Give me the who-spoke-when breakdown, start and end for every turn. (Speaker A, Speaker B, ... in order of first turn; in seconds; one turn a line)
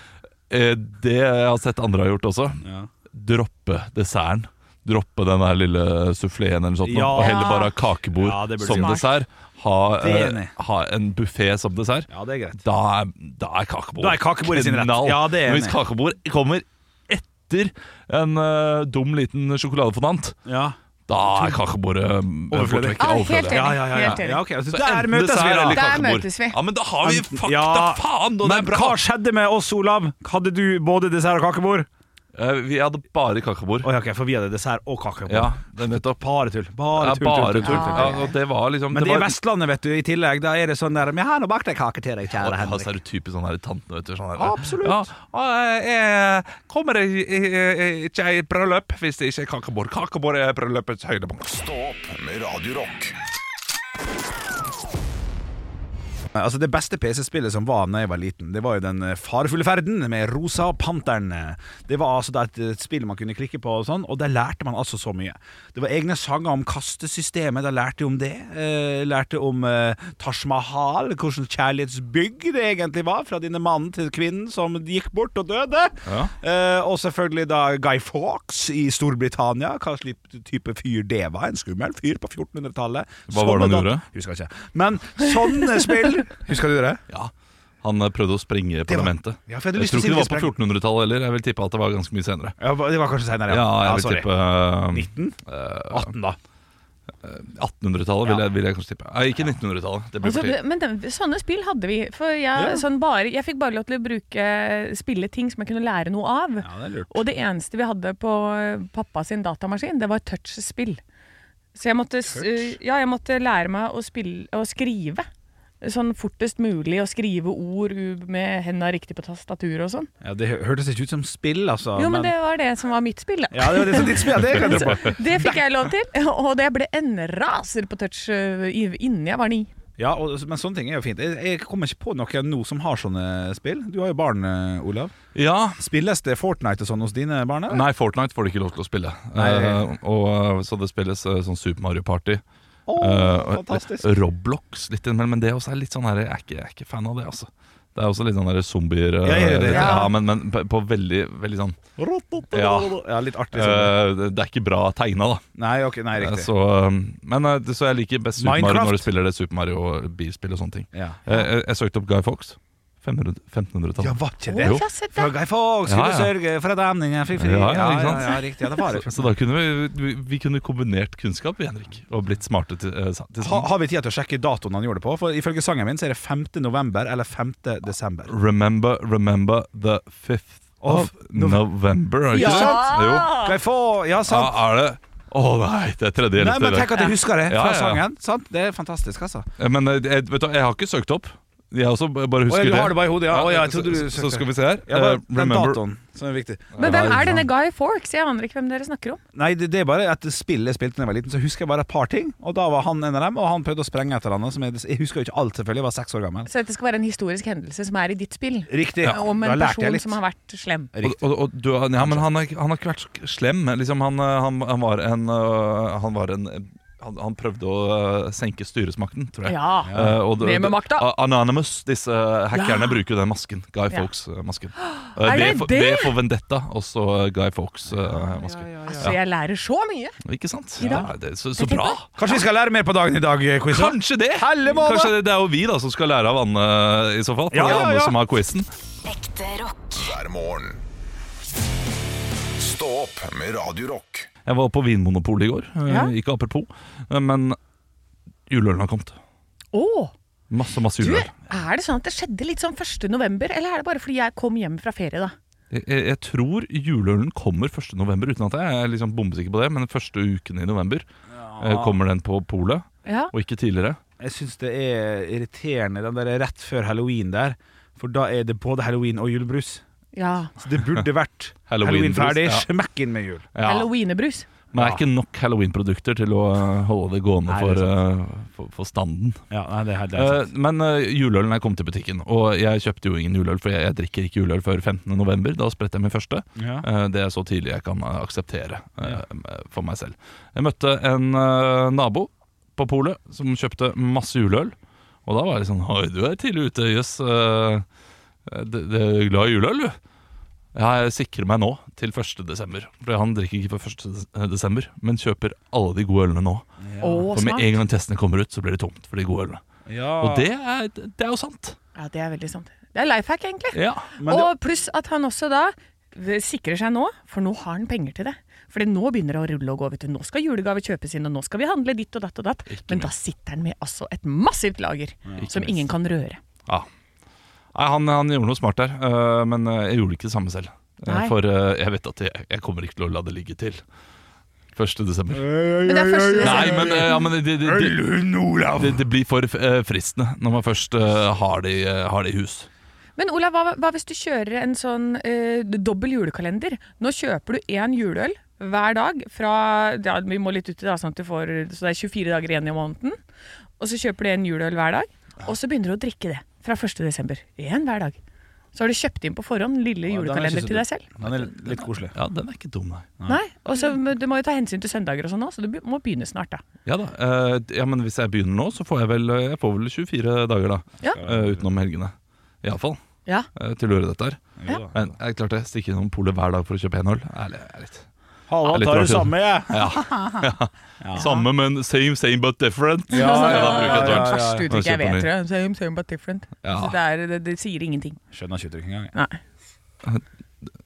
Speaker A: 0.5-12.1
Speaker B: 2.6-2.9
Speaker B: 6.8-9.1
Speaker C: 7.2-7.8
Speaker C: 8.7-9.1
Speaker B: 10.0-10.5
Speaker B: 12.1-12.6
Speaker A: 12.6-20.4
Speaker B: 14.0-15.8
Speaker B: 20.5-21.6
Speaker A: 21.1-24.2
Speaker B: 22.5-25.9
Speaker C: 23.0-24.4
Speaker A: 24.7-29.0
Speaker C: 25.7-26.6
Speaker B: 27.0-31.9
Speaker A: 32.4-33.9
Speaker B: 33.8-38.3
Speaker A: 35.3-36.2
Speaker A: 37.0-39.3
Speaker C: 37.6-38.3
Speaker B: 38.9-42.9
Speaker A: 42.3-51.5
Speaker B: 44.4-45.1
Speaker D: 51.5-53.2
Speaker B: 56.3-87.0
Speaker A: 76.1-76.3
Speaker A: 83.3-84.0
Speaker A: 87.8-92.6
Speaker B: 88.9-90.5
Speaker B: 92.6-94.3
Speaker A: 93.5-96.1
Speaker B: 94.9-95.4
Speaker B: 95.9-96.4
Speaker A: 97.2-100.6
Speaker C: 100.2-111.0
Speaker B: 102.6-102.8
Speaker B: 106.6-107.2
Speaker C: 111.8-115.3
Speaker B: 112.3-112.7
Speaker C: 115.8-120.1
Speaker B: 120.2-122.3
Speaker C: 122.0-129.7
Speaker B: 123.5-125.6
Speaker B: 130.0-135.1
Speaker A: 135.3-135.8
Speaker B: 135.8-137.8
Speaker A: 137.7-142.4
Speaker B: 139.4-139.8
Speaker B: 142.9-144.1
Speaker A: 143.0-151.8
Speaker B: 149.2-150.1
Speaker C: 149.7-150.1
Speaker B: 152.0-153.9
Speaker A: 152.5-152.9
Speaker A: 153.5-155.4
Speaker B: 155.6-156.5
Speaker A: 156.2-164.8
Speaker B: 158.4-159.1
Speaker B: 160.9-161.2
Speaker B: 164.0-169.3
Speaker C: 164.5-165.3
Speaker A: 165.9-166.3
Speaker A: 167.4-173.7
Speaker B: 173.4-178.3
Speaker A: 178.3-183.4
Speaker B: 180.8-181.7
Speaker C: 182.3-183.6
Speaker B: 182.3-184.6
Speaker A: 184.3-188.0
Speaker B: 186.4-189.5
Speaker A: 189.6-195.8
Speaker B: 192.5-197.4
Speaker A: 196.8-197.5
Speaker C: 196.8-199.2
Speaker B: 199.3-206.5
Speaker C: 206.5-210.9
Speaker B: 208.7-210.2
Speaker B: 210.9-211.2
Speaker A: 211.0-229.2
Speaker B: 212.0-212.3
Speaker C: 219.4-221.1
Speaker B: 219.9-220.2
Speaker C: 222.5-223.0
Speaker C: 224.8-226.2
Speaker B: 228.1-229.1
Speaker C: 228.9-230.2
Speaker A: 230.3-232.1
Speaker C: 230.8-232.0
Speaker B: 230.8-231.1
Speaker B: 232.2-235.1
Speaker A: 233.7-238.7
Speaker B: 237.5-238.2
Speaker D: 239.1-240.8
Speaker D: 242.6-244.3
Speaker A: 244.5-247.6
Speaker C: 245.9-246.1
Speaker A: 248.5-249.2
Speaker C: 249.7-250.1
Speaker A: 250.5-251.3
Speaker C: 251.0-255.3
Speaker A: 255.7-261.1
Speaker B: 261.3-262.0
Speaker A: 261.6-264.0
Speaker C: 263.1-263.3
Speaker B: 264.2-269.8
Speaker C: 270.1-270.5
Speaker B: 270.6-273.5
Speaker A: 271.7-272.7
Speaker A: 273.5-273.9
Speaker C: 273.6-274.5
Speaker A: 274.7-279.4
Speaker B: 274.7-275.0
Speaker B: 277.5-277.9
Speaker B: 279.5-280.5
Speaker A: 280.1-294.8
Speaker B: 286.6-286.9
Speaker A: 295.3-297.9
Speaker A: 298.5-300.0
Speaker A: 300.7-306.6
Speaker B: 306.8-307.3
Speaker C: 307.0-307.8
Speaker A: 307.3-309.6
Speaker B: 309.9-310.5
Speaker A: 310.2-311.8
Speaker C: 312.0-326.4
Speaker A: 313.7-314.1
Speaker B: 314.2-314.5
Speaker A: 322.7-323.1
Speaker A: 325.4-325.8
Speaker A: 327.7-333.8
Speaker C: 331.1-331.3
Speaker A: 334.8-335.6
Speaker B: 335.3-339.1
Speaker C: 335.9-337.2
Speaker A: 336.4-338.1
Speaker A: 338.7-342.7
Speaker C: 343.2-353.2
Speaker C: 353.8-358.2
Speaker C: 358.8-361.1
Speaker B: 360.1-362.1
Speaker A: 361.2-363.1
Speaker C: 363.3-366.6
Speaker A: 366.9-373.0
Speaker B: 371.1-371.7
Speaker A: 373.6-378.1
Speaker B: 374.6-375.0
Speaker B: 378.5-381.3
Speaker A: 378.7-385.3
Speaker C: 381.2-381.4
Speaker B: 383.1-384.7
Speaker C: 383.1-388.2
Speaker A: 386.6-387.0
Speaker B: 388.3-389.1
Speaker C: 389.1-389.4